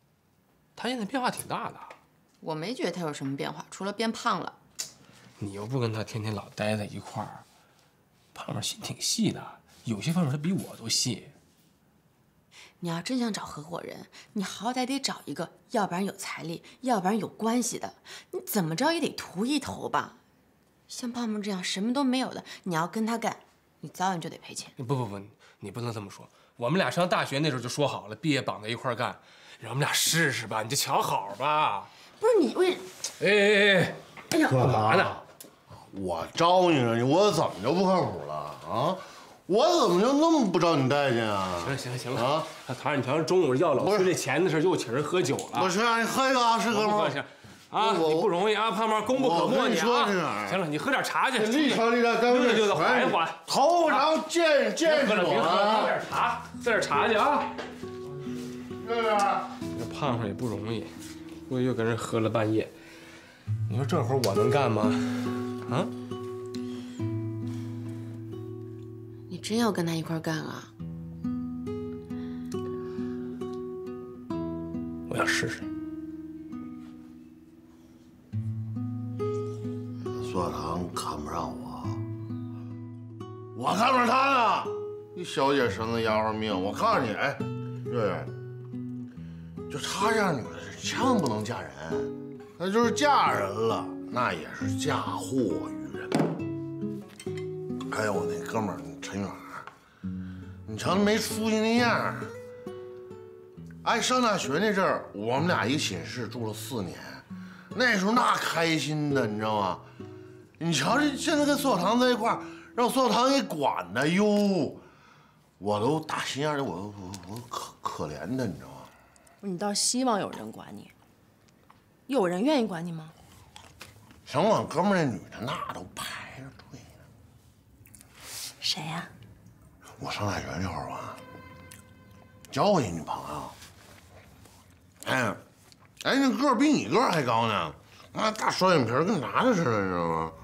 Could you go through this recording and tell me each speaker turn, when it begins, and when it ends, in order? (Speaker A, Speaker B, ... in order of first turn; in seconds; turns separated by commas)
Speaker A: 0.8-1.9, Speaker B: 2.4-4.6, Speaker A: 5.4-7.4, Speaker A: 8.3-11.3, Speaker B: 12.8-20.2, Speaker B: 20.9-24.8, Speaker A: 24.8-31.9, Speaker B: 32.2-32.8, Speaker A: 33.2-34.0, Speaker C: 34.5-35.2, Speaker A: 34.5-35.2, Speaker C: 35.9-42.5, Speaker A: 41.6-45.7, Speaker C: 43.8-44.1, Speaker C: 45.5-47.2, Speaker A: 46.7-53.4, Speaker C: 47.7-48.3, Speaker C: 49.1-50.6, Speaker C: 51.3-56.0, Speaker A: 54.8-57.5, Speaker C: 58.8-59.5, Speaker A: 59.7-62.7, Speaker A: 63.7-65.9, Speaker B: 69.3-70.7, Speaker A: 75.1-75.7, Speaker C: 80.0-82.0, Speaker C: 83.5-88.3, Speaker C: 89.7-96.3, Speaker C: 97.9-99.7, Speaker C: 100.7-102.3, Speaker C: 103.8-109.8, Speaker C: 110.6-114.8, Speaker C: 115.6-118.9, Speaker D: 119.4-120.9, Speaker D: 122.1-123.1, Speaker C: 124.2-127.0, Speaker D: 128.6-129.1, Speaker C: 130.0-131.2, Speaker C: 132.5-133.5, Speaker C: 135.0-135.4, Speaker C: 136.0-140.3